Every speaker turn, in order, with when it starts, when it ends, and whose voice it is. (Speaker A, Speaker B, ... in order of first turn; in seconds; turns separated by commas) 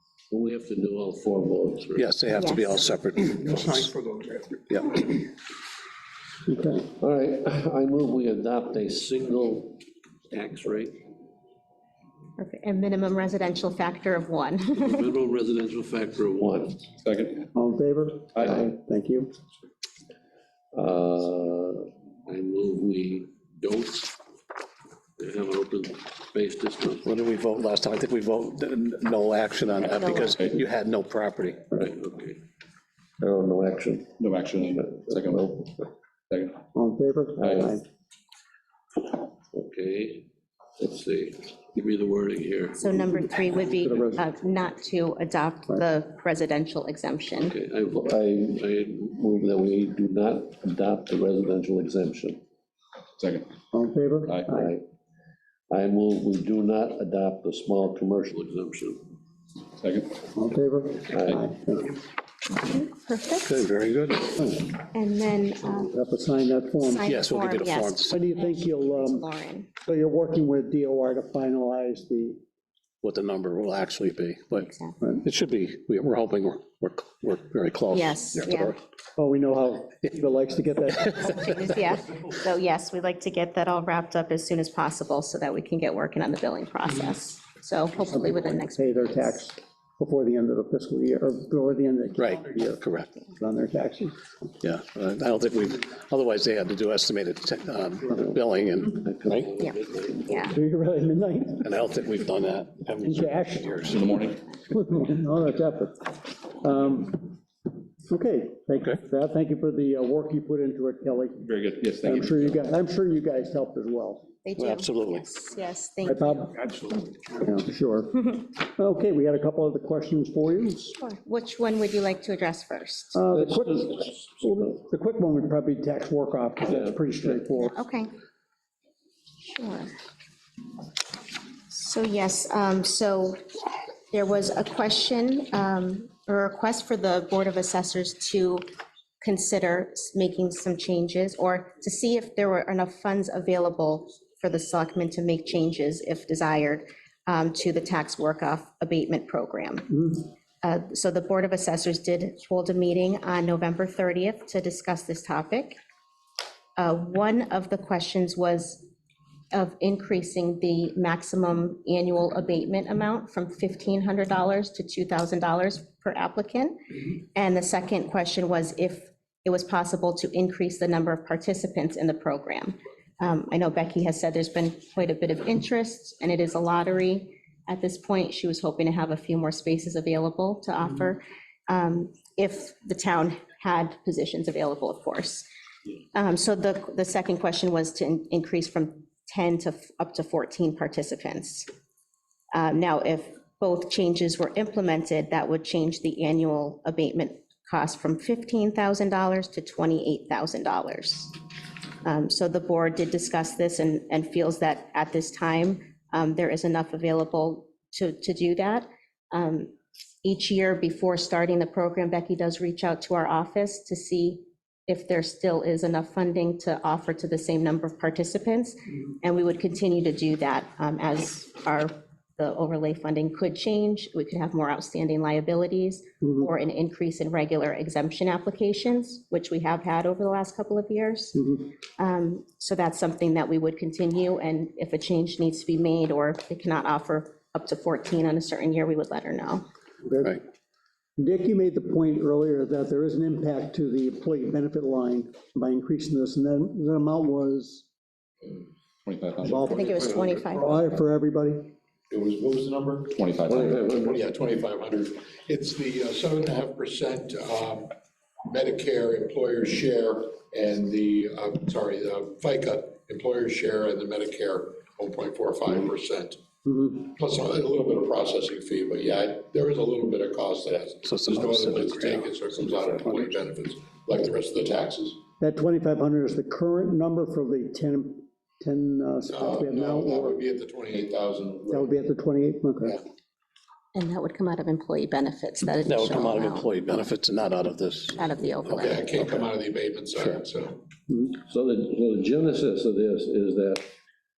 Speaker A: 0.3-2.1, Speaker B: 1.9-3.9, Speaker C: 2.4-2.8, Speaker B: 4.7-5.1, Speaker D: 6.5-6.9, Speaker A: 7.0-11.0, Speaker C: 12.4-15.1, Speaker A: 14.8-16.9, Speaker E: 17.0-17.4, Speaker D: 17.5-19.3, Speaker A: 20.7-24.1, Speaker A: 25.2-27.0, Speaker B: 27.0-31.7, Speaker C: 30.0-30.3, Speaker A: 31.7-32.4, Speaker A: 33.2-34.1, Speaker E: 34.2-35.6, Speaker A: 34.7-35.7, Speaker E: 36.3-36.6, Speaker D: 36.7-37.8, Speaker A: 37.4-37.7, Speaker A: 39.5-40.2, Speaker A: 40.8-42.9, Speaker C: 42.8-47.5, Speaker D: 43.0-44.2, Speaker A: 47.4-52.4, Speaker E: 53.2-53.5, Speaker D: 53.7-54.7, Speaker A: 54.5-54.8, Speaker A: 55.7-59.0, Speaker E: 59.8-60.2, Speaker D: 60.3-61.9, Speaker A: 61.1-61.4, Speaker C: 62.5-63.5, Speaker B: 63.4-64.5, Speaker D: 64.4-64.7, Speaker C: 64.7-65.9, Speaker D: 65.8-67.1, Speaker C: 66.8-69.7, Speaker B: 67.0-68.2, Speaker D: 68.1-69.2, Speaker D: 69.8-72.4, Speaker B: 73.0-74.7, Speaker C: 74.6-75.0, Speaker B: 75.2-78.8, Speaker C: 77.9-78.7, Speaker D: 79.2-81.3, Speaker C: 81.1-89.4, Speaker D: 88.1-92.8, Speaker B: 92.2-93.1, Speaker D: 93.4-94.2, Speaker B: 94.6-99.5, Speaker A: 99.0-100.5, Speaker C: 99.6-100.5, Speaker D: 100.5-101.7, Speaker B: 101.6-104.1, Speaker D: 103.0-103.8, Speaker E: 103.8-104.5, Speaker D: 104.7-107.4, Speaker D: 108.1-111.5, Speaker E: 111.4-112.6, Speaker D: 112.0-114.2, Speaker C: 114.4-116.6, Speaker B: 114.6-115.3, Speaker D: 116.0-116.6, Speaker D: 117.4-121.0, Speaker C: 121.0-123.2, Speaker D: 123.1-127.8, Speaker A: 123.5-123.9, Speaker C: 127.6-128.1, Speaker C: 129.6-130.0, Speaker C: 131.7-133.4, Speaker C: 134.1-138.6, Speaker C: 139.2-150.1, Speaker D: 149.9-150.2, Speaker C: 150.6-155.8, Speaker C: 156.8-158.9, Speaker C: 159.5-185.5, Speaker C: 186.1-191.7, Speaker C: 192.5-201.4, Speaker C: 202.0-209.7, Speaker C: 210.2-239.6, Speaker D: 231.3-231.7, Speaker D: 240.0-240.4, Speaker D: 241.2-247.8, Speaker E: 249.0-250.0, Speaker D: 249.4-251.7, Speaker C: 249.7-250.8, Speaker F: 250.0-250.3, Speaker A: 250.1-250.3, Speaker F: 252.1-253.2, Speaker E: 253.1-253.8, Speaker A: 253.4-254.2, Speaker F: 253.8-257.9, Speaker F: 258.5-266.4, Speaker D: 266.6-266.9, Speaker F: 266.9-275.2, Speaker B: 271.0-272.2, Speaker D: 275.4-280.4, Speaker F: 279.3-281.9, Speaker D: 281.7-283.0, Speaker C: 283.9-286.7, Speaker B: 285.8-288.9, Speaker C: 288.1-289.2, Speaker F: 288.8-290.8, Speaker D: 291.1-291.4, Speaker A: 291.5-293.8